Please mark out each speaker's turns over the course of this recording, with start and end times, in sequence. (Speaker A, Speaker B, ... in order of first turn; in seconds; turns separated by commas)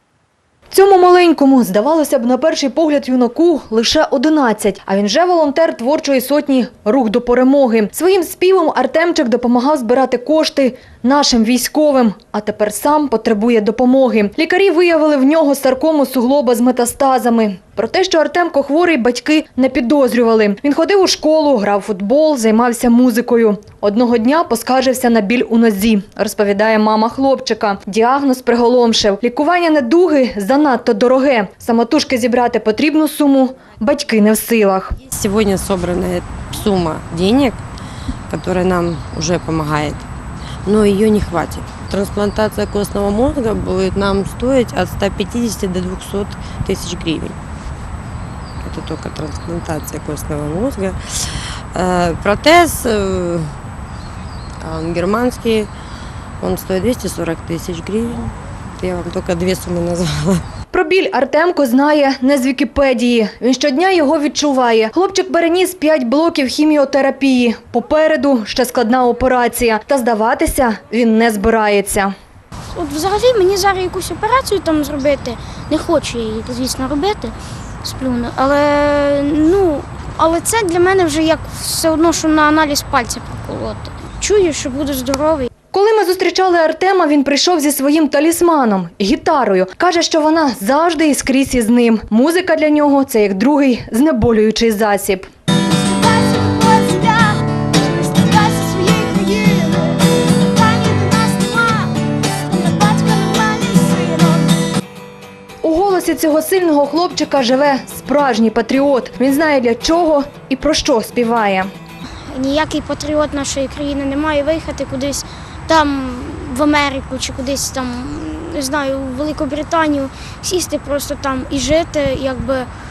Speaker A: 0.7-35.0, Speaker B: 35.0-37.6, Speaker B: 38.3-40.1, Speaker B: 40.6-47.4, Speaker B: 48.6-53.5, Speaker B: 54.6-55.7, Speaker B: 56.4-60.4, Speaker A: 60.7-72.1, Speaker C: 72.7-85.5, Speaker A: 85.7-95.3, Speaker C: 95.7-104.5, Speaker A: 105.6-111.7, Speaker C: 112.3-122.7